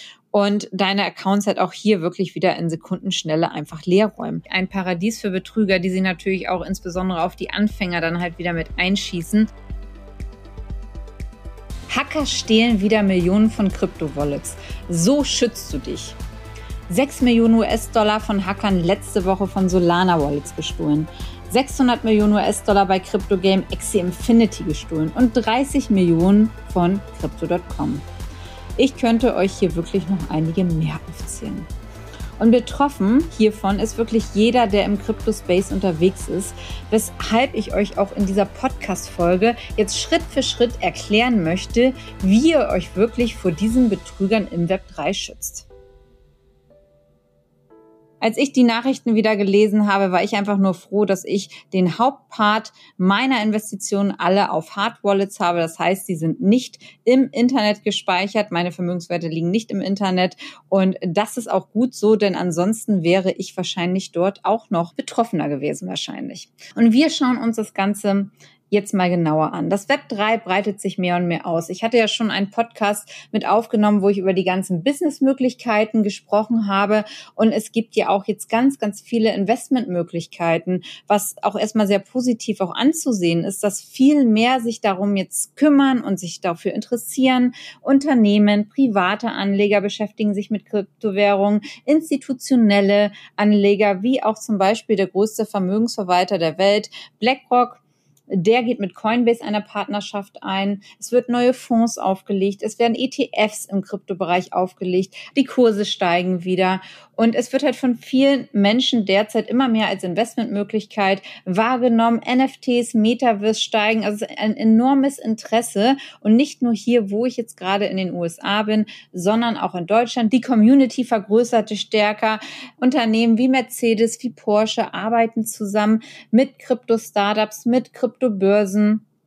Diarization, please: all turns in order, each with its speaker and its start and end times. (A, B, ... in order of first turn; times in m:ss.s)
0:00.3-0:09.5 A
0:11.9-0:16.2 A
0:16.9-0:28.0 A
0:28.8-0:31.7 A
0:32.4-0:45.7 A
0:48.2-2:09.0 A